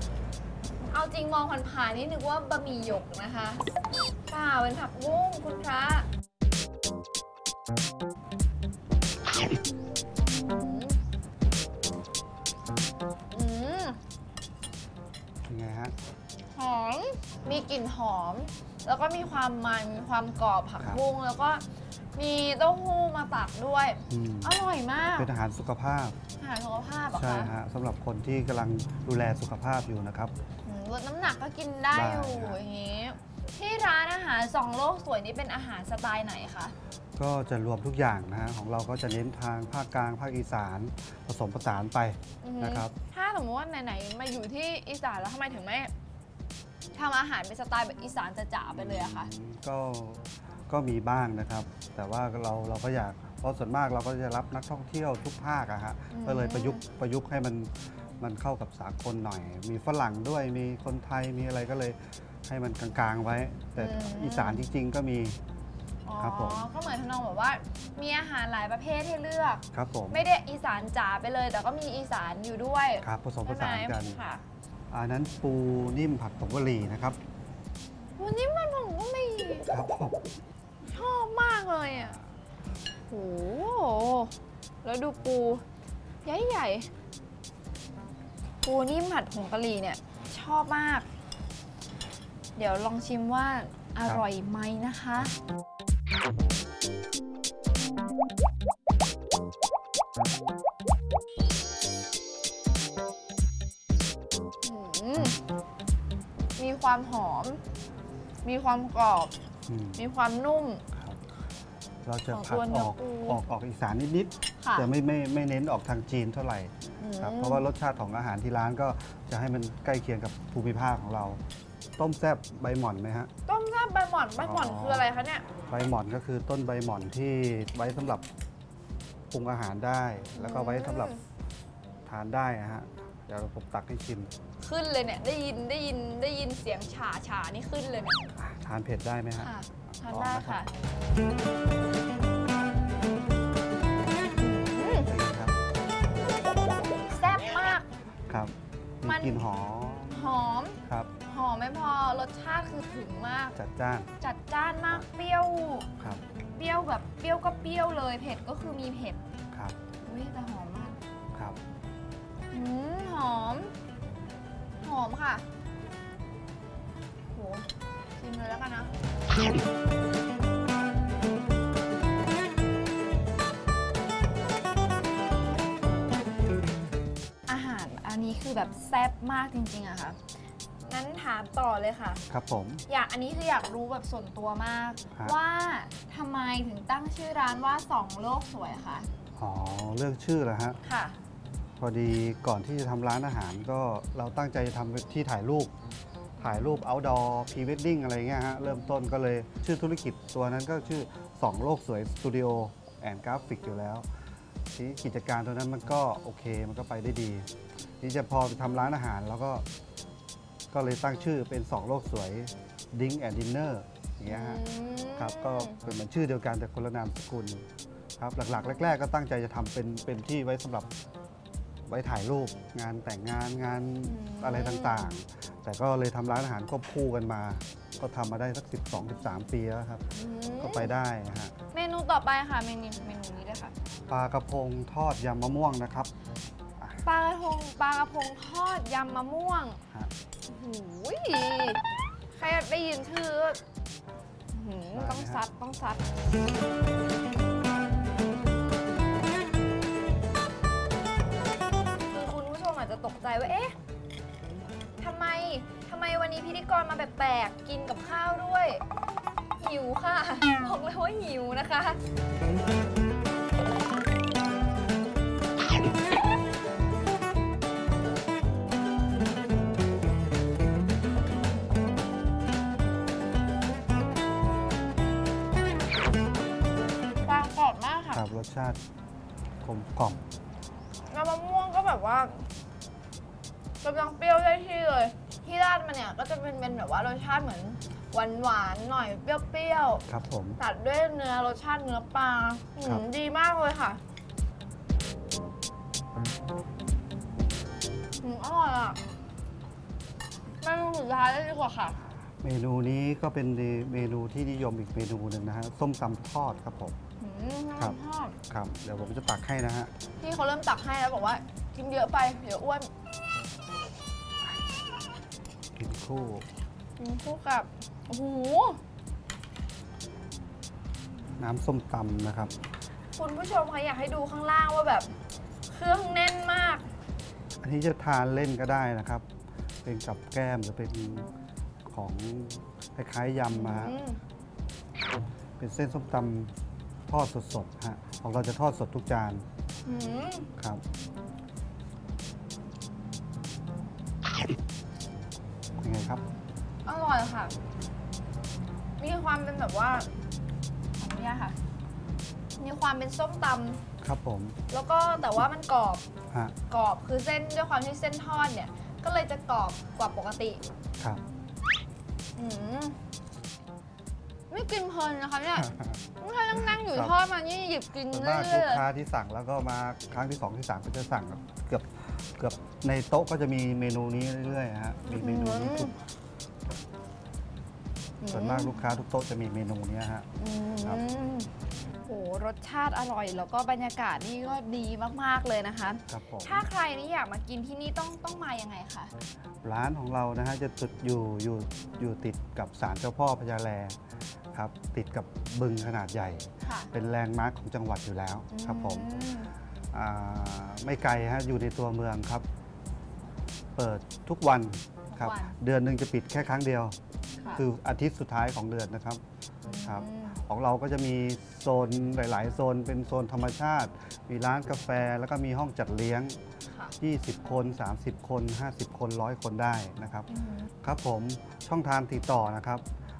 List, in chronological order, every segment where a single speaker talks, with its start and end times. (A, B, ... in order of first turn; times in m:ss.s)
0:00.8-0:03.6 A
0:04.3-0:06.1 A
0:10.3-0:11.0 A
0:13.3-0:14.0 A
0:15.4-0:15.9 B
0:16.5-0:21.6 A
0:22.2-0:25.3 A
0:24.1-0:24.6 B
0:25.2-0:26.2 B
0:26.4-0:27.5 A
0:27.1-0:30.3 B
0:30.6-0:36.7 A
0:31.9-0:32.6 B
0:37.2-0:42.9 B
0:42.4-0:45.9 A
0:46.9-0:49.3 A
0:48.7-1:05.4 B
0:56.1-0:56.8 A
1:03.8-1:04.6 A
1:06.0-1:14.4 A
1:06.2-1:06.7 B
1:09.7-1:10.2 B
1:13.0-1:14.2 B
1:14.9-1:17.2 B
1:18.2-1:19.7 A
1:19.7-1:20.2 B
1:20.9-1:22.2 A
1:21.9-1:22.3 B
1:23.1-1:24.3 A
1:24.8-1:25.6 A
1:26.2-1:26.9 A
1:28.6-1:31.1 A
1:32.6-1:35.3 A
1:44.6-1:45.4 A
1:46.6-1:47.6 A
1:48.4-1:49.3 A
1:49.7-1:50.0 B
1:50.0-1:50.8 A
1:50.9-1:51.2 B
1:52.0-2:01.4 B
1:52.3-1:53.4 A
1:54.6-1:54.9 A
1:57.0-1:57.6 A
2:02.0-2:03.3 B
2:03.4-2:05.5 A
2:04.4-2:05.1 B
2:05.7-2:08.2 B
2:09.3-2:11.1 B
2:10.3-2:11.2 A
2:12.0-2:14.3 B
2:14.6-2:18.3 A
2:18.4-2:20.6 B
2:19.3-2:20.7 A
2:24.3-2:25.1 A
2:25.0-2:25.6 B
2:27.1-2:27.9 A
2:28.3-2:31.1 B
2:29.0-2:29.4 A
2:30.1-2:33.5 A
2:33.5-2:34.1 B
2:34.2-2:35.9 A
2:36.5-2:39.2 A
2:40.0-2:41.0 A
2:42.5-2:43.7 A
2:44.8-2:45.4 A
2:47.3-2:47.6 A
2:48.2-2:48.9 A
2:57.5-3:00.2 A
3:00.9-3:02.2 A
3:02.3-3:02.8 B
3:02.9-3:09.1 A
3:09.4-3:10.8 B
3:10.8-3:11.1 A
3:11.8-3:15.7 B
3:16.4-3:16.8 A
3:16.4-3:24.0 B
3:24.7-3:27.5 B
3:28.0-3:29.6 B
3:30.7-3:37.6 B
3:34.3-3:35.8 A
3:38.2-3:40.9 B
3:41.8-3:50.0 B
3:44.0-3:45.1 A
3:50.1-3:50.9 A
3:50.6-3:51.5 B
3:51.7-3:53.7 A
3:54.1-3:56.1 B
3:57.0-3:59.8 A
4:00.5-4:01.8 A
4:02.3-4:03.6 A
4:04.5-4:06.0 A
4:04.9-4:05.4 B
4:12.1-4:13.7 A
4:15.0-4:18.8 A
4:19.6-4:22.0 A
4:37.2-4:38.2 A
4:38.1-4:38.8 B
4:39.6-4:40.2 B
4:41.1-4:42.4 A
4:43.8-4:50.0 A
4:50.1-4:50.6 B
4:50.6-4:54.0 A
4:58.2-4:59.0 A
5:00.6-5:02.0 A
5:02.4-5:07.0 B
5:07.2-5:08.4 A
5:08.5-5:09.9 B
5:10.2-5:12.9 A
5:15.8-5:16.4 B
5:17.0-5:18.8 A
5:21.4-5:22.5 B
5:23.2-5:25.1 A
5:25.7-5:26.8 A
5:27.6-5:29.2 B
5:29.8-5:31.3 B
5:31.9-5:34.0 B
5:33.5-5:34.2 A
5:35.6-5:36.5 B
5:37.1-5:39.4 B
5:39.8-5:40.5 A
5:45.8-5:46.2 B
5:46.8-5:47.5 A
5:49.0-5:50.1 A
5:51.0-5:51.5 A
5:52.6-5:53.8 A
5:54.0-5:54.6 B
5:54.7-5:56.0 A
5:56.7-6:00.6 A
6:02.4-6:03.0 A
6:04.5-6:08.8 A
6:05.5-6:06.0 B
6:06.6-6:07.1 B
6:08.1-6:16.0 B
6:15.1-6:15.9 A
6:18.2-6:18.8 A
6:18.3-6:20.2 B
6:20.4-6:21.5 A
6:22.0-6:29.1 A
6:26.1-6:26.6 B
6:29.6-6:34.0 B
6:34.5-6:39.1 B
6:36.6-6:36.9 A
6:38.5-6:39.5 A
6:39.9-6:42.4 B
6:43.8-6:47.0 B
6:45.1-6:45.5 A
6:47.5-6:49.2 B
6:49.6-6:50.4 A
6:49.8-6:56.4 B
6:56.7-6:56.9 A
6:57.0-7:00.3 B
7:00.3-7:00.7 A
7:00.8-7:02.8 B